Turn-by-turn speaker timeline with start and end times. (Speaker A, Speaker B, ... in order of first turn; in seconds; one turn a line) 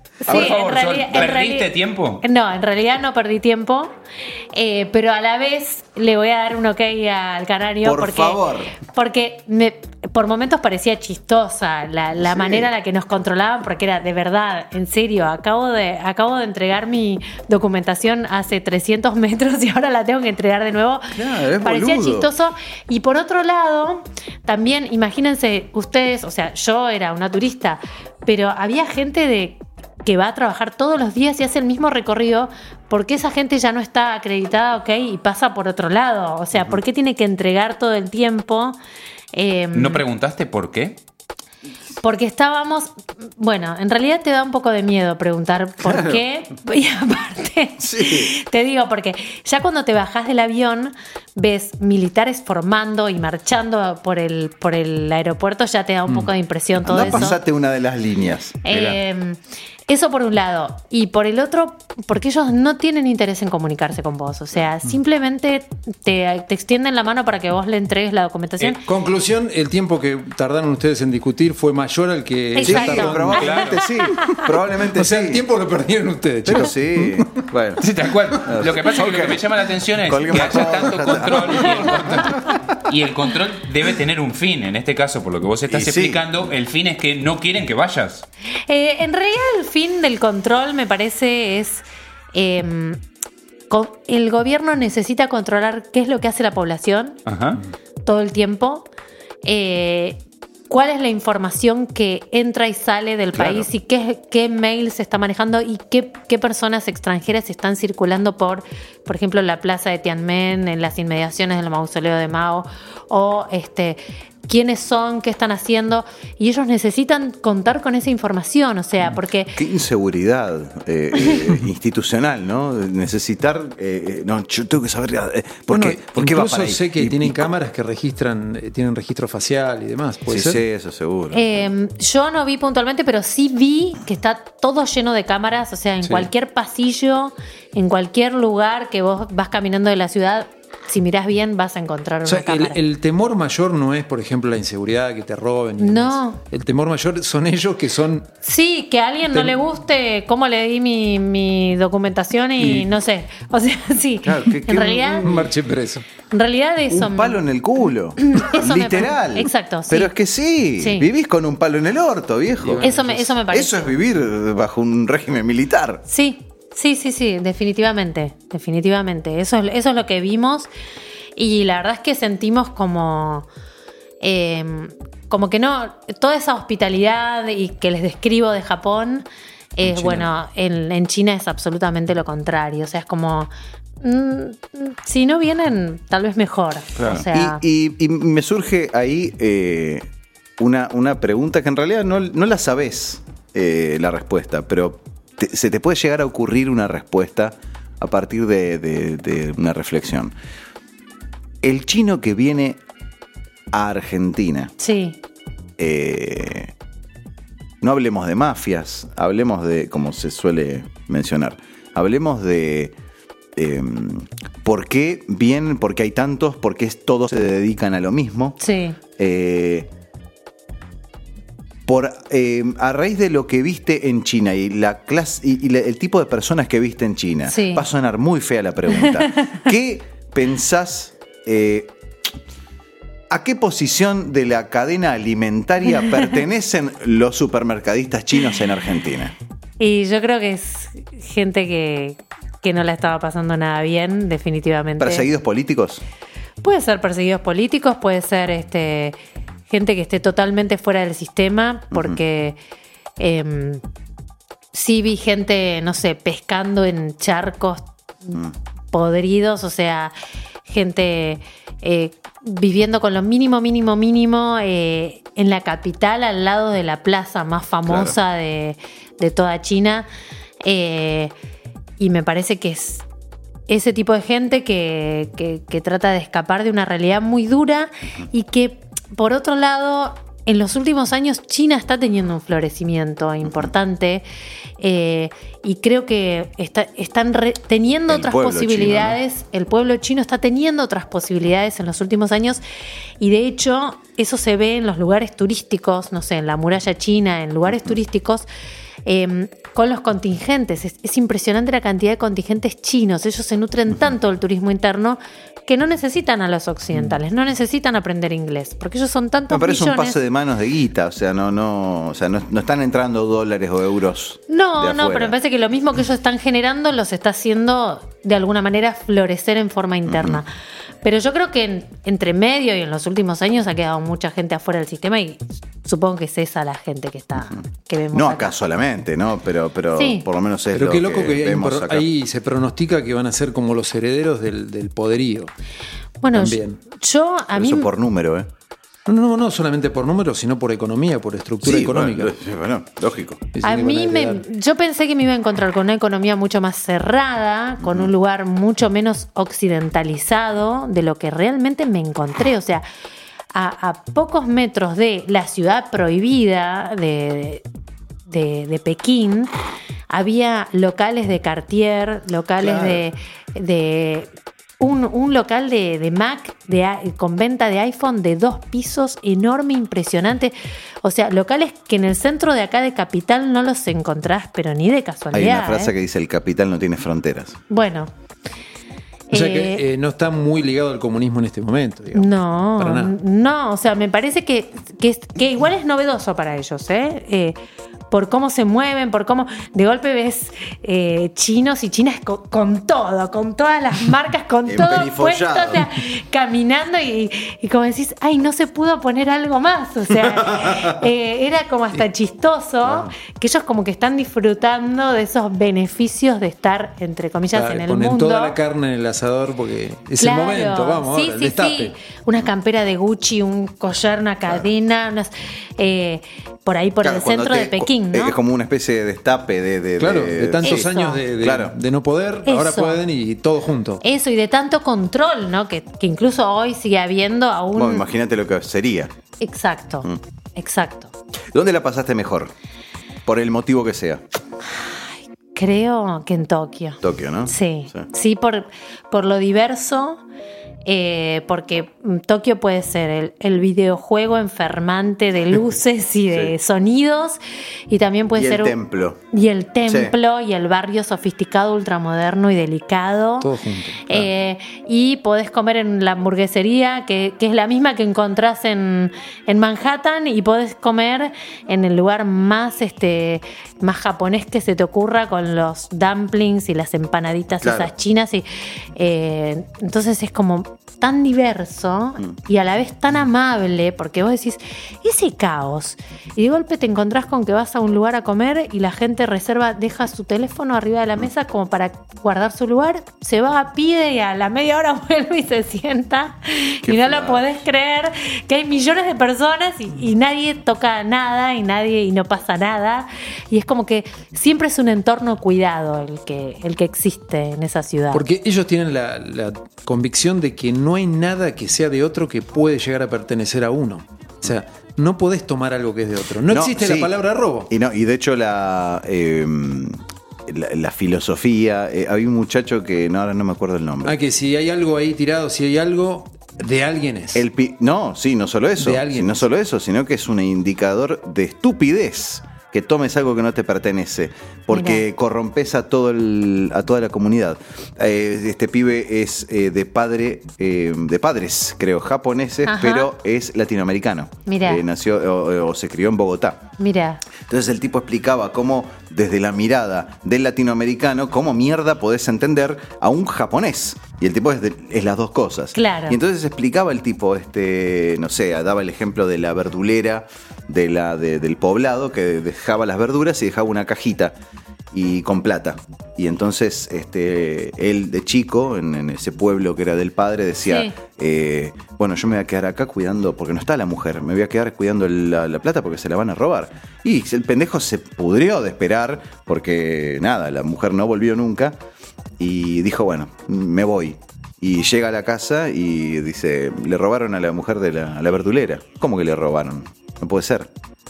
Speaker A: 0.2-3.9
Speaker B: 0.3-2.2
Speaker C: 0.3-0.6
Speaker A: 4.5-38.8
Speaker C: 7.8-8.7
Speaker C: 12.2-12.7
Speaker C: 21.1-22.3
Speaker A: 39.3-40.0
Speaker B: 39.7-41.0
Speaker A: 42.0-57.4
Speaker C: 47.8-48.3
Speaker C: 56.8-58.6
Speaker A: 58.6-68.8
Speaker B: 58.7-59.0
Speaker D: 68.7-73.5
Speaker A: 72.5-74.4
Speaker C: 72.6-75.5
Speaker B: 73.2-73.8
Speaker D: 74.8-77.3
Speaker C: 76.4-77.8
Speaker B: 77.8-88.3
Speaker C: 78.4-79.5
Speaker C: 80.0-82.3
Speaker C: 85.7-86.3
Speaker A: 88.7-93.0
Speaker A: 93.7-97.2
Speaker B: 97.3-97.6
Speaker A: 98.0-98.9
Speaker A: 99.5-119.6
Speaker C: 119.6-127.5
Speaker D: 125.7-130.6
Speaker C: 130.3-131.7
Speaker A: 131.3-142.8
Speaker D: 136.0-136.3
Speaker D: 142.2-148.3
Speaker A: 145.8-146.4
Speaker A: 148.4-155.5
Speaker D: 149.3-149.6
Speaker D: 152.6-152.9
Speaker C: 154.2-155.5
Speaker D: 155.2-156.0
Speaker A: 156.3-157.4
Speaker C: 156.9-162.9
Speaker A: 158.2-160.1
Speaker A: 160.8-161.1
Speaker D: 162.6-163.3
Speaker A: 162.8-163.9
Speaker C: 163.5-166.0
Speaker A: 166.1-170.7
Speaker A: 171.4-173.5
Speaker A: 174.2-187.6
Speaker D: 179.9-180.2
Speaker C: 187.0-200.3
Speaker C: 201.6-202.8
Speaker C: 203.7-204.7
Speaker A: 204.8-205.2
Speaker C: 205.8-206.7
Speaker C: 207.8-212.9
Speaker C: 213.6-218.6
Speaker A: 218.6-219.0
Speaker C: 219.2-219.9
Speaker C: 221.9-231.9
Speaker A: 227.5-227.8
Speaker A: 229.0-229.5
Speaker C: 233.3-239.3
Speaker A: 239.8-245.3
Speaker C: 245.0-246.0
Speaker A: 246.6-249.2
Speaker A: 249.7-252.6
Speaker C: 251.9-252.2
Speaker A: 253.2-253.8
Speaker A: 254.7-260.1
Speaker A: 260.7-270.1
Speaker C: 267.9-268.2
Speaker A: 270.6-271.3
Speaker A: 272.0-273.1
Speaker A: 273.7-284.2
Speaker C: 283.4-283.7
Speaker A: 284.8-292.6
Speaker C: 288.1-289.2
Speaker A: 293.2-298.5
Speaker C: 297.7-297.9
Speaker A: 299.1-310.2
Speaker C: 309.5-315.4
Speaker A: 314.5-320.5
Speaker C: 320.1-320.4
Speaker A: 321.0-328.6
Speaker C: 327.4-332.1
Speaker A: 330.0-330.3
Speaker D: 330.7-335.5
Speaker A: 336.2-337.9
Speaker D: 336.3-336.8
Speaker C: 337.5-338.5
Speaker D: 339.1-342.3
Speaker C: 341.6-343.5
Speaker D: 343.6-344.4
Speaker A: 343.6-352.8
Speaker C: 347.8-348.1
Speaker A: 353.5-357.6
Speaker A: 358.3-359.5
Speaker A: 360.1-375.9
Speaker C: 362.6-363.0
Speaker C: 375.3-377.6
Speaker A: 377.7-378.1
Speaker A: 379.3-379.8
Speaker D: 379.3-383.1
Speaker A: 382.1-387.6
Speaker A: 388.1-408.6
Speaker C: 394.7-395.9
Speaker C: 400.4-400.9
Speaker D: 407.5-411.9
Speaker A: 410.2-418.4
Speaker C: 417.0-420.9
Speaker D: 420.0-424.0
Speaker A: 420.6-421.2
Speaker C: 421.4-421.8
Speaker A: 422.5-423.0
Speaker A: 424.0-428.1
Speaker C: 427.8-429.1
Speaker A: 429.4-431.1
Speaker C: 431.5-432.5
Speaker C: 433.3-434.2
Speaker A: 435.5-440.2
Speaker C: 437.0-438.1
Speaker A: 440.9-448.8
Speaker C: 448.3-449.2
Speaker A: 449.3-453.5
Speaker C: 449.9-450.1
Speaker D: 453.4-454.3
Speaker A: 454.0-498.3
Speaker C: 467.6-467.9
Speaker C: 486.8-487.5
Speaker D: 498.1-507.7
Speaker C: 506.5-514.2
Speaker D: 514.0-517.5
Speaker C: 517.3-536.7
Speaker D: 518.8-519.4
Speaker A: 524.7-525.0
Speaker A: 532.6-533.1
Speaker A: 534.5-534.8
Speaker A: 536.8-537.2
Speaker C: 537.5-554.4
Speaker A: 545.7-546.2
Speaker C: 554.9-571.8
Speaker A: 560.7-561.0
Speaker C: 572.4-580.7